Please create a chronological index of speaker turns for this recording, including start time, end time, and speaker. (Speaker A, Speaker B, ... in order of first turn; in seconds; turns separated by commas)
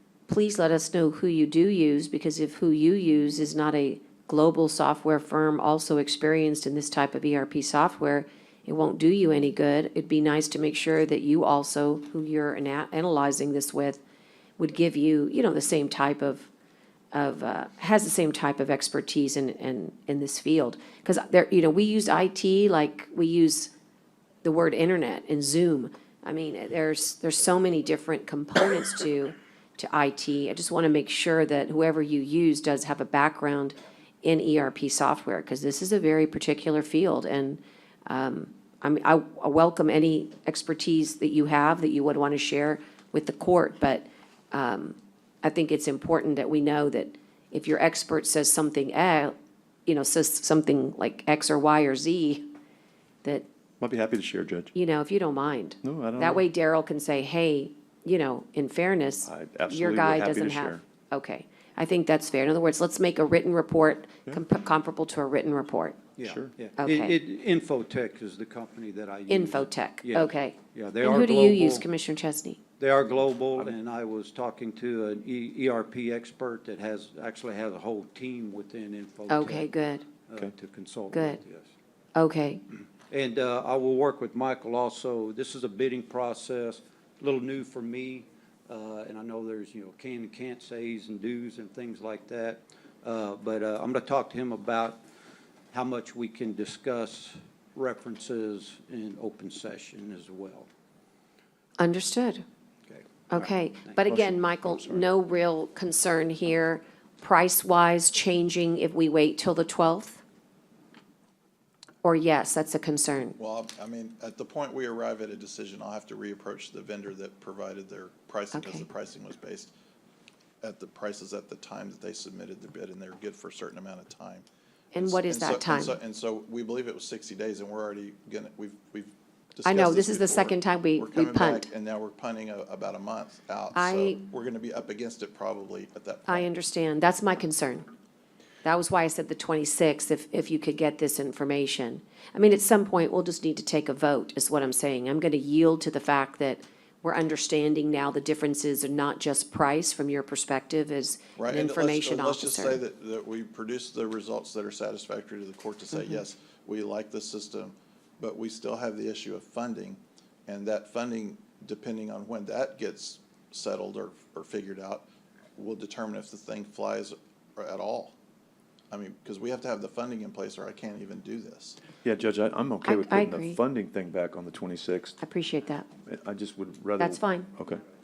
Speaker A: 0.3-14.0, Speaker A: 14.6-16.5, Speaker A: 17.1-23.7, Speaker A: 24.4-49.4, Speaker A: 49.9-52.5, Speaker B: 53.8-54.7, Speaker A: 54.7-66.0, Speaker B: 55.8-56.5, Speaker B: 59.2-60.8, Speaker C: 66.2-71.9, Speaker B: 66.2-66.5, Speaker A: 66.8-67.2, Speaker A: 69.3-72.6, Speaker C: 72.8-79.7, Speaker A: 79.3-80.1, Speaker C: 80.3-81.7, Speaker A: 81.1-81.4, Speaker A: 82.2-82.6, Speaker C: 83.1-95.0, Speaker C: 95.7-100.7, Speaker A: 101.8-102.4, Speaker A: 103.3-110.2, Speaker B: 104.1-105.0, Speaker A: 112.0-113.4, Speaker D: 113.4-119.7, Speaker A: 118.5-118.8, Speaker D: 120.6-136.5, Speaker A: 124.9-126.0, Speaker A: 129.6-131.7, Speaker A: 133.7-134.2, Speaker A: 136.3-137.9, Speaker A: 138.6-152.8, Speaker D: 151.4-168.1, Speaker D: 168.9-171.8, Speaker B: 172.0-175.2, Speaker A: 172.8-173.6, Speaker A: 175.2-175.9, Speaker B: 176.0-177.8, Speaker A: 177.0-177.5